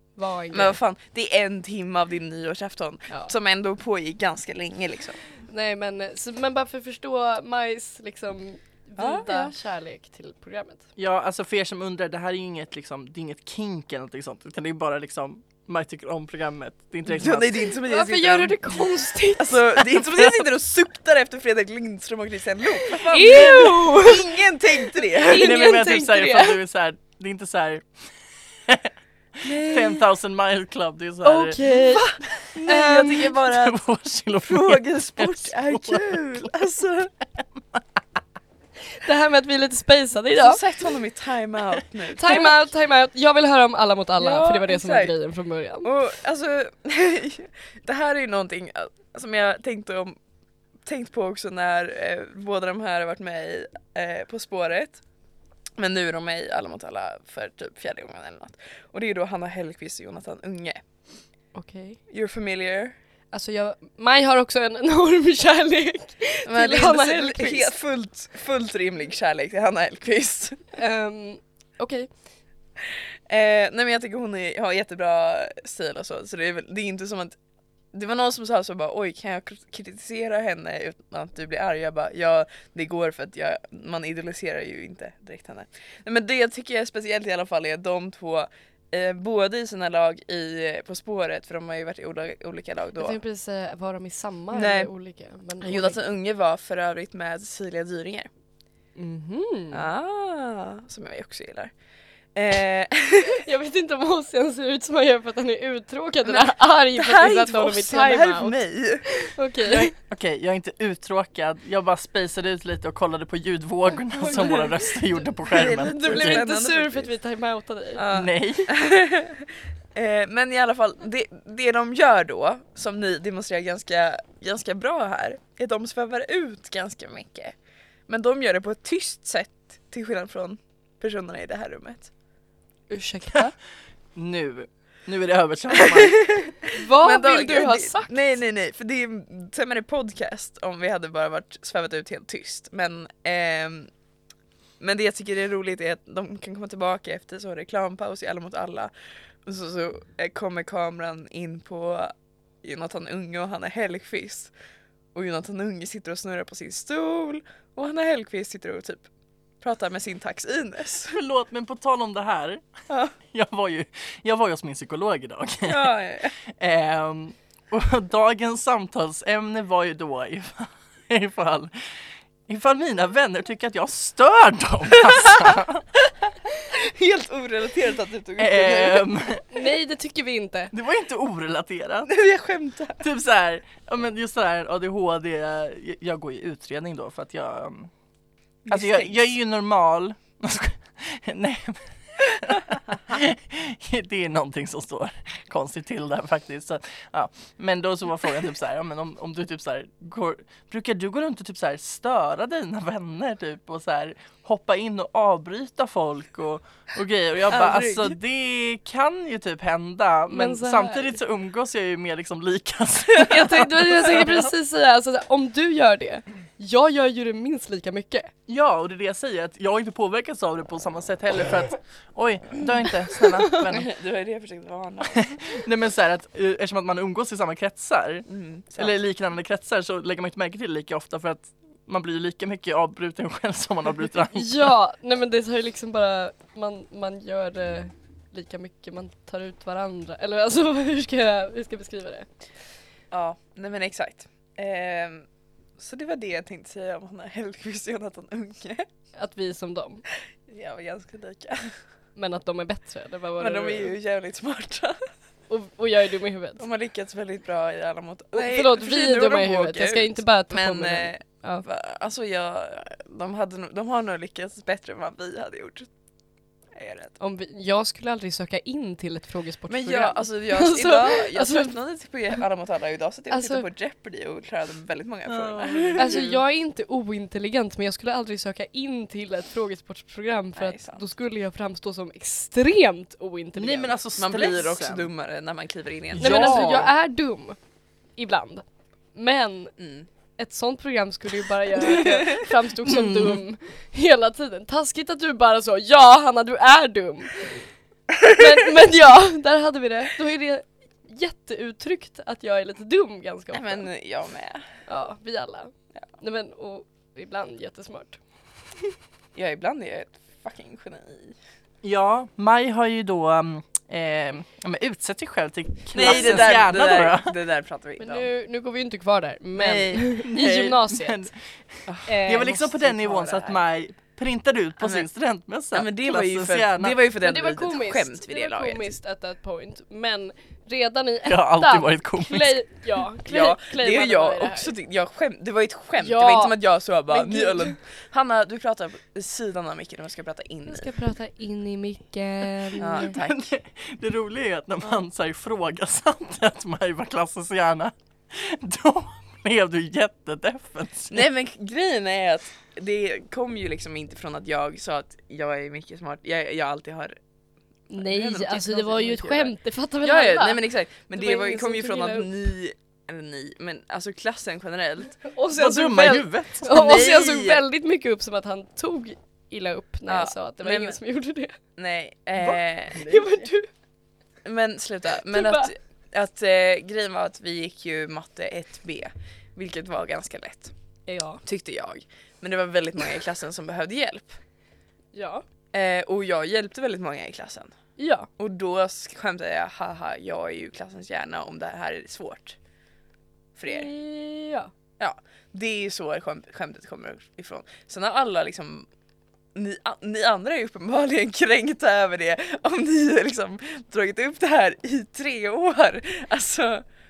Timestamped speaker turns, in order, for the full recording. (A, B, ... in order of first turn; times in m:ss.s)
0:00.2-0:00.8 A
0:00.5-0:05.2 B
0:05.5-0:10.8 A
0:09.0-0:09.5 B
0:11.0-0:17.6 C
0:17.0-0:18.9 B
0:17.9-0:19.7 A
0:19.4-0:25.7 B
0:22.8-0:24.4 A
0:25.0-0:26.6 A
0:25.3-0:28.0 C
0:29.4-0:31.6 C
0:29.4-0:30.0 B
0:31.2-0:33.4 A
0:31.9-0:33.8 B
0:33.5-0:36.5 C
0:34.5-0:37.1 B
0:37.4-0:37.8 C
0:39.0-0:40.6 A
0:40.4-0:42.6 B
0:42.1-0:45.9 A
0:44.2-0:45.1 B
0:45.8-0:50.2 B
0:50.8-0:55.0 B
0:55.8-1:00.8 B
1:01.6-1:02.0 A
1:02.1-1:02.9 B
1:03.3-1:07.7 A
1:06.5-1:10.7 B
1:10.7-1:12.1 A
1:13.3-1:17.4 B
1:17.9-1:33.2 B
1:33.0-1:36.0 A
1:34.5-1:34.9 B
1:35.6-1:38.3 B
1:39.0-1:39.8 A
1:39.7-1:41.7 B
1:42.4-1:43.4 B
1:43.3-1:49.9 A
1:46.2-1:49.1 B
1:49.7-1:56.4 C
1:54.3-1:54.6 B
1:55.5-1:57.1 B
1:55.9-1:58.0 A
1:58.0-2:07.6 B
1:58.1-1:58.7 C
2:08.1-2:12.1 B
2:12.9-2:13.5 A
2:14.2-2:16.3 C
2:16.0-2:23.9 B
2:16.7-2:18.3 A
2:24.8-2:28.9 B
2:29.4-2:34.5 B
2:35.2-2:39.0 B
2:39.6-2:41.2 B
2:41.1-2:42.6 C
2:42.9-2:43.2 B
2:43.3-2:45.9 C
2:45.6-2:46.4 B
2:46.5-2:55.8 C
2:55.1-2:55.5 B
2:56.6-2:59.1 B
2:58.4-2:59.4 C
2:59.5-3:00.7 A
3:00.7-3:02.1 C
3:02.1-3:03.0 B
3:03.0-3:07.9 C
3:08.7-3:09.3 B
3:08.7-3:34.5 C
3:27.5-3:28.2 B
3:30.3-3:31.2 A
3:33.3-3:38.3 A
3:38.5-3:43.9 C
3:43.2-3:43.7 A
3:43.7-3:45.4 B
3:45.0-3:54.7 C
3:48.3-3:49.0 B
3:54.3-4:02.3 A
4:03.1-4:05.3 B
4:05.8-4:08.9 B
4:09.2-4:10.0 A
4:10.5-4:11.7 B
4:12.2-4:14.0 A
4:13.4-4:15.0 B
4:15.5-4:16.6 A
4:16.6-4:25.9 B
4:18.3-4:21.6 A
4:26.8-4:27.2 B
4:27.2-4:31.7 A
4:29.7-4:36.3 B
4:33.3-4:33.7 A
4:35.3-4:36.4 C
4:36.0-4:43.9 A
4:40.6-4:41.1 B
4:43.6-4:45.1 C
4:44.2-4:46.9 B
4:46.1-4:46.9 C
4:46.2-4:47.6 A
4:48.2-4:49.7 A
4:49.8-4:50.1 B
4:50.4-4:57.6 A
4:51.8-4:52.5 B
4:52.8-4:53.4 C
4:58.2-5:03.8 A
5:03.5-5:04.7 B
5:04.9-5:08.2 A
5:09.4-5:11.4 B
5:11.8-5:17.3 C
5:15.9-5:18.3 B
5:16.0-5:16.4 A
5:18.0-5:21.3 A
5:19.6-5:21.3 C
5:21.9-5:23.6 B
5:22.1-5:22.6 A
5:22.2-5:27.0 C
5:24.8-5:25.1 B
5:25.7-5:28.9 B
5:27.2-5:34.7 A
5:31.3-5:32.6 C
5:33.3-5:40.9 B
5:36.0-5:36.6 A
5:37.1-5:37.8 A
5:40.7-5:43.1 A
5:42.8-5:43.5 B
5:42.8-5:51.3 C
5:51.1-5:57.2 B
5:57.9-6:05.2 B
5:57.9-6:00.6 A
6:01.2-6:02.3 A
6:05.2-6:11.6 A
6:05.5-6:07.2 C
6:06.7-6:07.6 B
6:10.1-6:11.0 B
6:11.8-6:13.0 B
6:12.9-6:13.5 C
6:13.1-6:13.7 A
6:14.4-6:20.7 B
6:15.3-6:15.7 A
6:21.1-6:21.4 A
6:21.4-6:24.4 B
6:25.1-6:25.4 A
6:25.7-6:27.7 B
6:28.0-6:28.3 A
6:28.4-6:32.6 B
6:33.6-6:33.9 B
6:33.7-6:34.7 A
6:35.0-6:38.9 B
6:39.6-6:46.8 B